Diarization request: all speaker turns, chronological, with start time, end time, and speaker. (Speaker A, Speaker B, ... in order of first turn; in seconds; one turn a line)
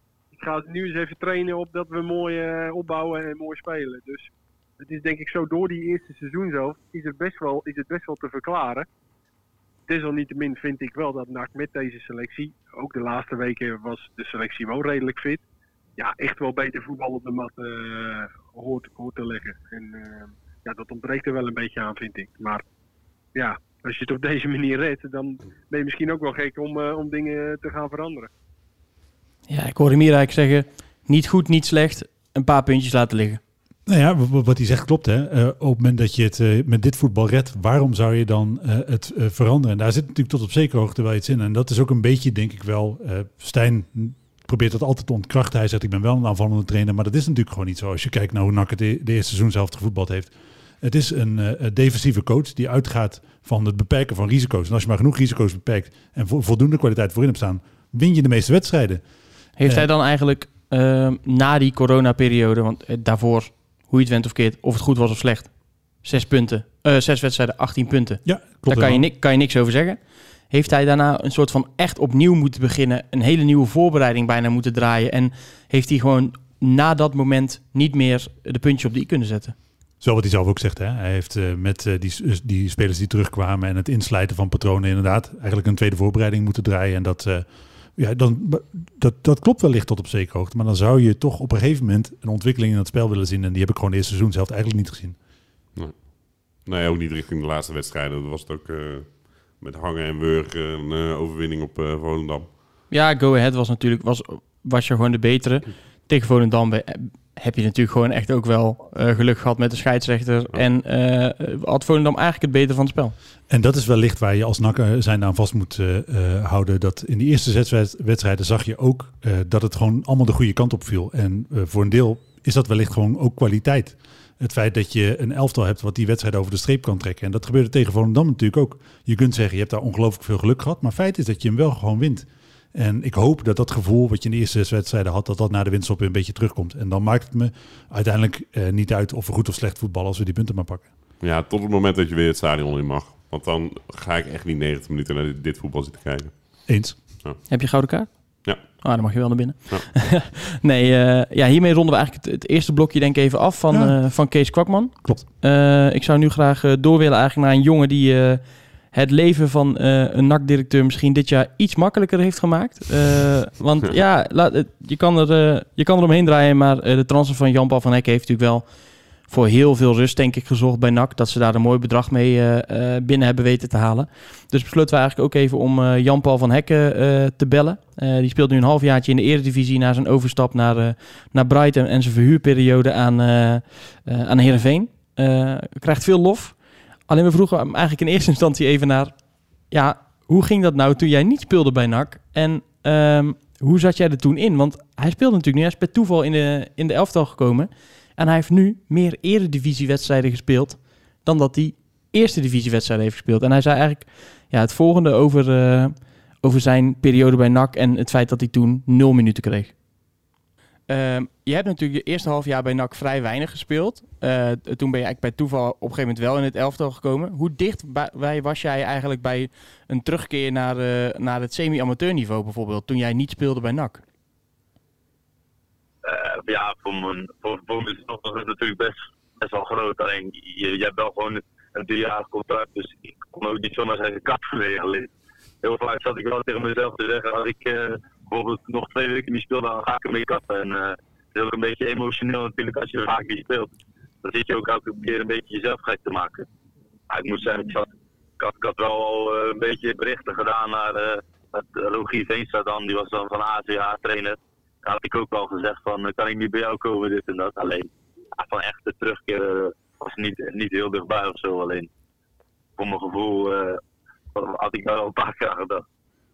Speaker A: 0.3-8.9
Speaker A: 9.9-15.4
Speaker A: 16.0-22.6
Speaker A: 23.3-28.3
Speaker B: 29.5-33.4
Speaker C: 33.9-59.0
Speaker B: 59.6-79.5
Speaker C: 68.2-69.1
Speaker C: 80.0-95.2
Speaker D: 95.8-102.5
Speaker B: 102.9-113.2
Speaker C: 113.5-140.9
Speaker D: 141.2-147.5
Speaker C: 146.7-147.0
Speaker B: 147.5-189.2
Speaker D: 148.4-149.9
Speaker C: 153.7-154.1
Speaker B: 189.7-209.8
Speaker B: 210.9-224.0
Speaker E: 226.0-235.1
Speaker E: 235.6-243.7
Speaker E: 244.2-246.4
Speaker E: 247.1-247.9
Speaker E: 248.4-261.9
Speaker E: 262.8-263.8
Speaker E: 264.3-265.8